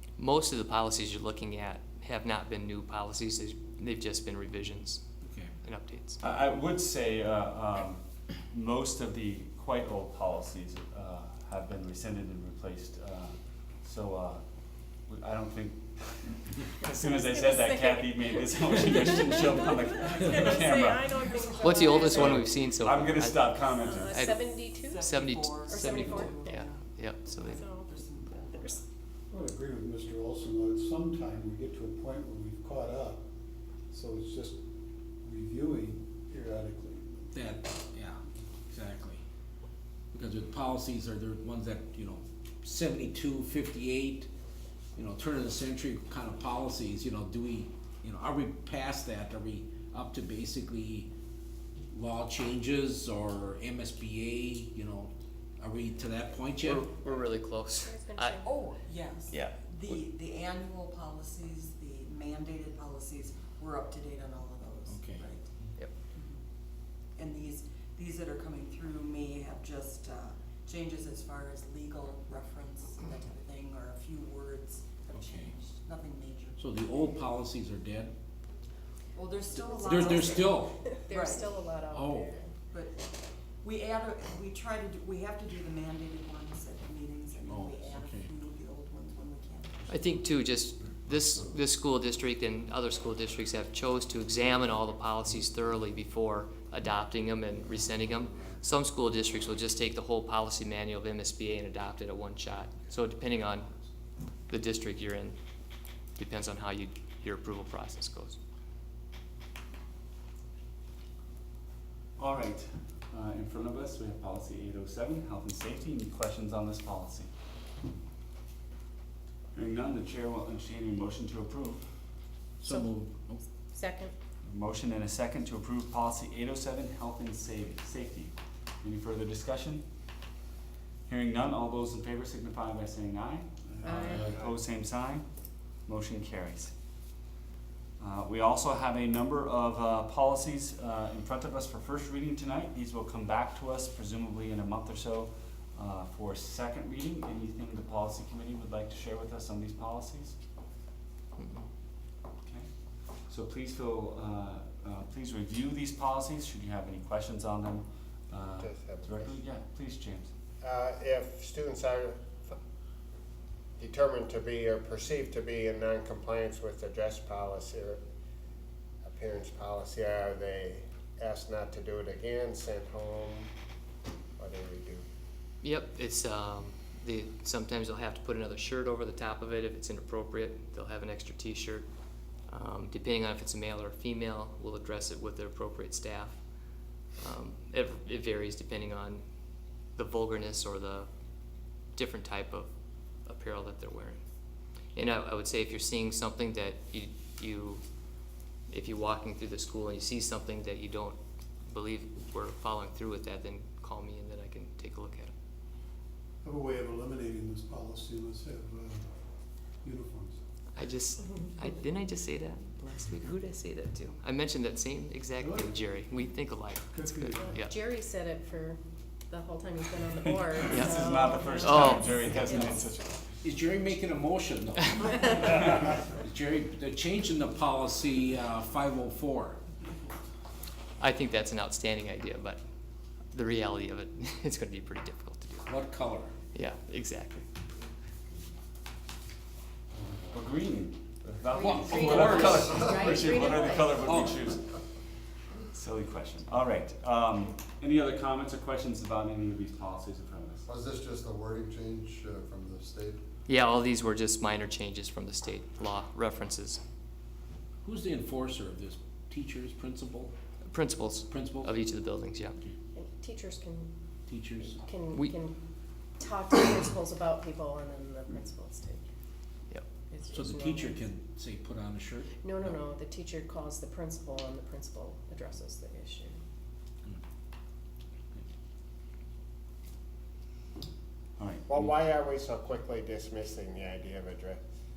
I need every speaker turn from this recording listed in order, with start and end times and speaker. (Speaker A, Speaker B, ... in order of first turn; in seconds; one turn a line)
Speaker A: 0.2-5.0
Speaker B: 5.2-5.5
Speaker A: 5.6-6.2
Speaker C: 6.2-14.4
Speaker C: 15.1-21.2
Speaker D: 16.8-22.5
Speaker A: 21.6-24.5
Speaker C: 22.0-24.3
Speaker D: 23.6-25.0
Speaker E: 24.8-28.8
Speaker A: 25.0-27.7
Speaker D: 25.5-26.7
Speaker D: 27.5-28.8
Speaker F: 29.3-33.2
Speaker F: 33.9-34.6
Speaker F: 35.2-37.5
Speaker B: 37.3-38.2
Speaker B: 38.7-39.2
Speaker B: 40.1-44.3
Speaker B: 45.0-51.1
Speaker B: 51.9-56.9
Speaker A: 56.6-58.4
Speaker D: 57.8-58.5
Speaker E: 58.4-65.5
Speaker A: 59.3-60.0
Speaker B: 64.9-65.3
Speaker E: 66.1-66.4
Speaker E: 67.1-77.2
Speaker B: 75.1-75.5
Speaker B: 76.6-78.1
Speaker E: 79.1-81.6
Speaker D: 79.5-82.5
Speaker B: 79.8-80.7
Speaker B: 81.9-82.3
Speaker E: 82.7-89.9
Speaker B: 87.5-88.3
Speaker A: 89.9-103.7
Speaker A: 104.5-105.3
Speaker A: 106.2-108.4
Speaker C: 112.2-117.3
Speaker C: 119.5-121.8
Speaker B: 122.6-123.4
Speaker D: 122.7-122.9
Speaker D: 123.7-124.1
Speaker C: 124.5-129.8
Speaker C: 131.1-135.3
Speaker F: 133.8-134.4
Speaker D: 133.8-134.3
Speaker C: 135.9-136.7
Speaker C: 138.0-150.4
Speaker A: 151.4-151.7
Speaker C: 153.3-160.3
Speaker G: 158.6-159.4
Speaker G: 160.6-162.6
Speaker G: 163.8-168.0
Speaker G: 169.0-173.5
Speaker G: 174.4-175.1
Speaker A: 175.6-181.8
Speaker A: 182.5-186.4
Speaker A: 187.2-189.2
Speaker A: 190.0-191.1
Speaker A: 191.9-192.7
Speaker A: 193.2-194.2
Speaker A: 194.9-197.8
Speaker A: 198.7-205.3
Speaker F: 206.4-209.1
Speaker F: 209.8-210.4
Speaker A: 210.7-217.8
Speaker F: 215.4-216.0
Speaker F: 216.9-217.6
Speaker D: 217.5-222.9
Speaker C: 220.5-223.2
Speaker A: 220.7-221.0
Speaker A: 221.6-222.1
Speaker B: 223.4-229.6
Speaker A: 231.0-232.6
Speaker A: 233.3-235.7
Speaker B: 235.7-236.3
Speaker A: 236.5-237.4
Speaker C: 240.3-244.7
Speaker D: 241.6-244.2
Speaker B: 241.6-242.6
Speaker B: 244.0-244.4
Speaker C: 245.7-250.7
Speaker H: 250.7-253.2
Speaker A: 253.5-256.8
Speaker B: 257.8-260.3
Speaker A: 260.6-262.6
Speaker B: 261.3-261.8
Speaker D: 262.9-263.9
Speaker B: 264.3-264.8
Speaker D: 264.6-265.6
Speaker D: 266.2-269.1
Speaker D: 270.1-271.0
Speaker B: 270.3-272.8
Speaker D: 272.4-276.4
Speaker C: 281.4-281.9
Speaker G: 281.7-284.6